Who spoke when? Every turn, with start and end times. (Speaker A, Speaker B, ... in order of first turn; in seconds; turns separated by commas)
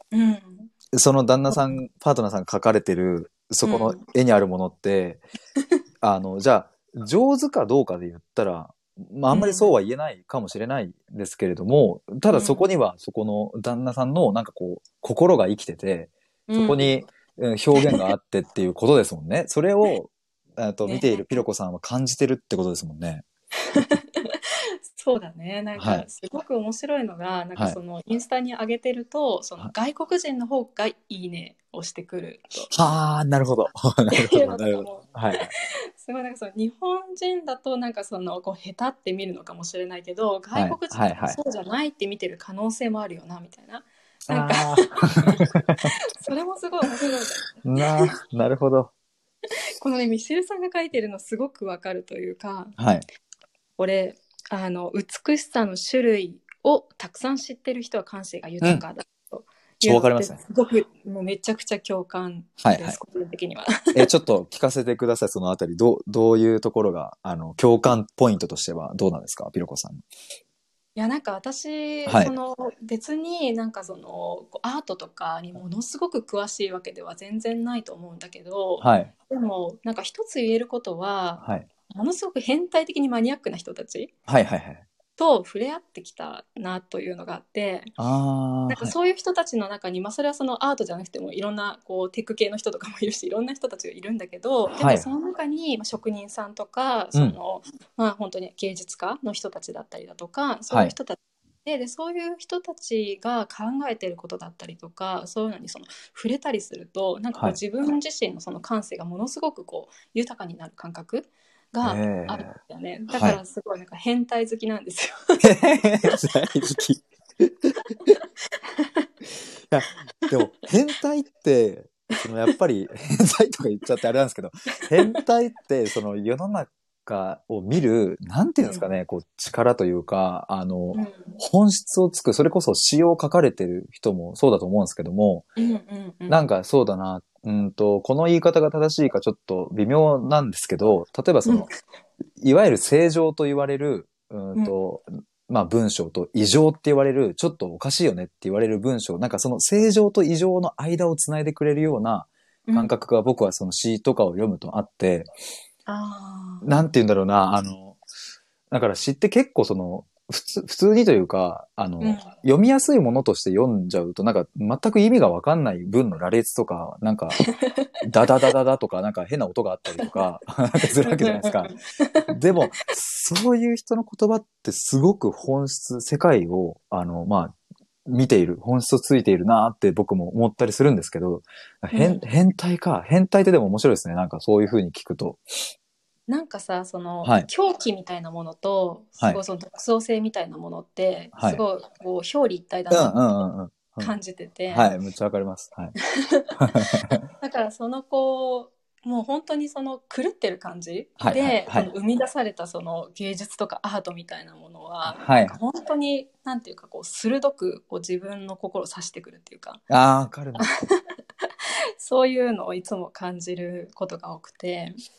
Speaker A: 0.1-0.7, Speaker B: 0.9-5.2, Speaker A: 3.6-4.0, Speaker B: 6.0-23.2, Speaker A: 9.3-9.7, Speaker A: 12.3-12.7, Speaker A: 16.5-16.9, Speaker A: 20.8-21.4, Speaker A: 23.7-32.7, Speaker B: 25.8-26.1, Speaker B: 32.7-35.5, Speaker A: 34.1-45.4, Speaker B: 40.5-41.4, Speaker B: 44.3-45.9, Speaker A: 46.2-48.1, Speaker B: 47.6-48.9, Speaker A: 49.8-52.7, Speaker B: 52.8-53.0, Speaker A: 53.8-64.1, Speaker B: 59.8-60.4, Speaker B: 62.6-63.0, Speaker B: 63.9-70.0, Speaker A: 71.0-84.1, Speaker B: 72.0-72.3, Speaker B: 78.8-79.1, Speaker B: 81.4-81.7, Speaker B: 84.3-84.9, Speaker A: 85.2-87.9, Speaker B: 88.0-89.0, Speaker A: 88.7-115.5, Speaker B: 94.7-95.1, Speaker B: 111.8-112.6, Speaker B: 113.1-113.4, Speaker B: 115.4-117.8, Speaker A: 118.1-119.1, Speaker B: 119.7-135.5, Speaker A: 130.9-131.4, Speaker A: 135.6-136.4, Speaker B: 136.3-141.7, Speaker B: 142.4-155.3, Speaker A: 152.7-152.9, Speaker A: 155.9-156.8, Speaker B: 156.6-158.0, Speaker B: 158.7-167.4, Speaker A: 162.0-162.3, Speaker A: 167.4-167.9, Speaker B: 168.0-171.7, Speaker A: 171.0-172.3, Speaker B: 172.3-177.6, Speaker B: 178.1-185.4, Speaker A: 181.9-182.2, Speaker A: 186.3-193.2, Speaker B: 187.2-187.5, Speaker B: 191.3-191.6, Speaker B: 192.9-194.1, Speaker A: 194.0-194.9, Speaker B: 194.7-195.9, Speaker A: 196.2-209.8, Speaker B: 196.6-197.2, Speaker B: 201.2-201.9, Speaker B: 205.1-205.6, Speaker B: 209.9-210.7, Speaker A: 210.6-211.0, Speaker A: 212.0-215.0